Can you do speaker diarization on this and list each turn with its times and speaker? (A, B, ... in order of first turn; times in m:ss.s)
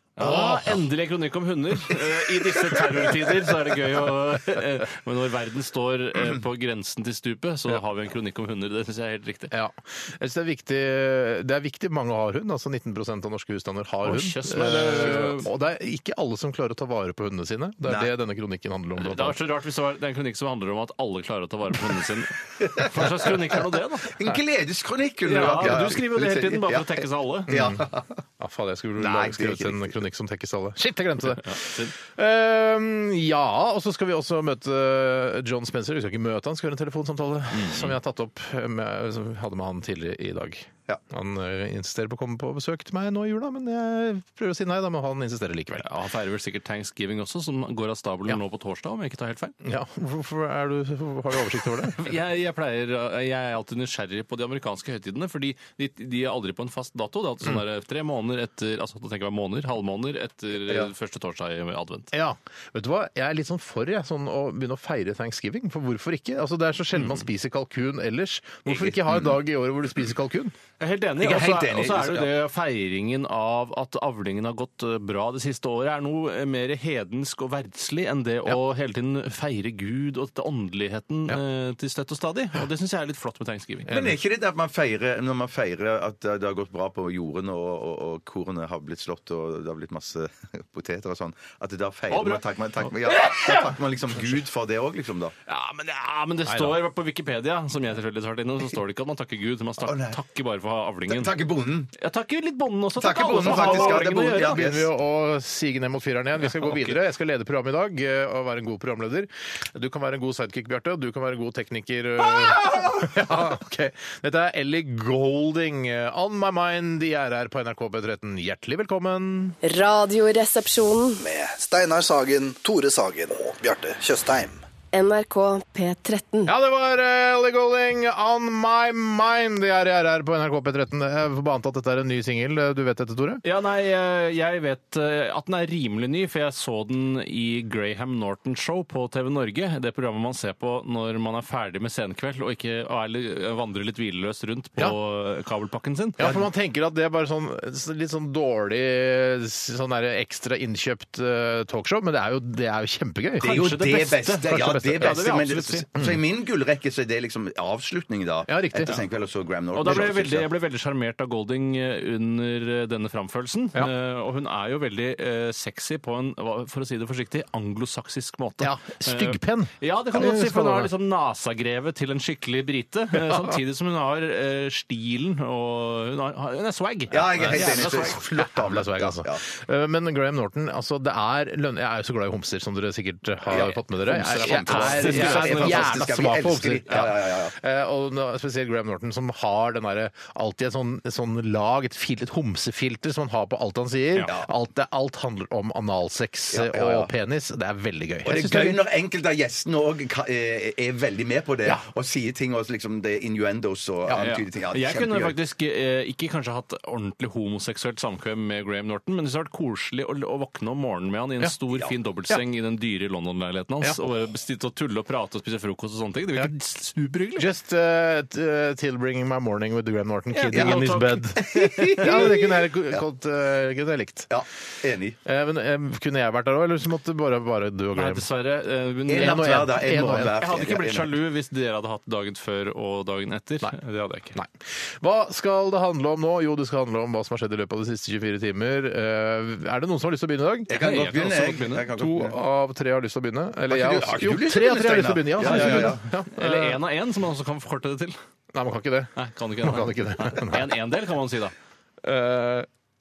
0:00.2-0:09.5 A
0:00.2-0:00.8 B
0:09.5-0:19.4 C
0:14.0-0:15.5 A
0:14.6-0:15.2 B
0:17.8-0:18.1 B
0:19.0-0:24.2 A
0:22.6-0:23.4 B
0:24.0-0:28.2 B
0:25.2-0:27.5 A
0:27.5-0:27.8 C
0:28.4-0:45.9 C
0:29.0-0:30.0 B
0:31.3-0:31.9 A
0:37.5-0:37.9 A
0:45.8-0:49.5 A
0:49.6-0:52.1 C
0:51.9-1:02.1 A
1:02.1-1:10.5 C
1:10.8-1:23.9 A
1:11.2-1:12.3 B
1:23.9-1:24.2 C
1:23.9-1:35.3 B
1:32.1-1:33.7 A
1:35.5-1:41.3 A
1:36.4-1:36.8 C
1:39.8-1:40.2 B
1:41.1-1:41.9 B
1:42.0-1:44.6 A
1:43.0-1:44.9 B
1:43.3-1:59.6 C
1:46.6-1:46.9 A
1:59.6-2:01.2 D
2:01.2-2:04.6 E
2:04.9-2:06.5 D
2:06.4-2:13.4 C
2:13.4-2:26.4 A
2:26.2-2:35.2 C
2:33.4-2:35.9 A
2:33.4-2:40.5 B
2:38.5-2:38.9 C
2:39.7-2:58.2 A
2:48.6-2:50.9 C
2:53.2-2:53.6 C
2:57.1-2:59.4 B
2:57.4-3:18.8 C
3:03.5-3:07.6 B
3:04.3-3:06.0 A
3:16.5-3:17.1 B
3:18.2-3:25.4 B
3:24.2-3:37.5 A
3:37.4-3:44.3 C
3:40.3-3:42.2 A
3:40.5-3:40.8 B
3:41.4-3:43.0 B
3:44.3-3:45.2 B
3:45.2-3:48.2 C
3:47.9-3:49.6 A
3:49.1-3:51.2 B
3:49.2-3:50.4 C
3:50.4-3:54.4 A
3:54.3-4:00.7 C
4:00.7-4:02.4 B
4:00.7-4:01.9 A
4:01.9-4:06.8 C
4:03.7-4:06.0 B
4:05.4-4:08.2 A
4:08.5-4:10.7 C
4:09.2-4:11.5 A
4:12.0-4:12.7 C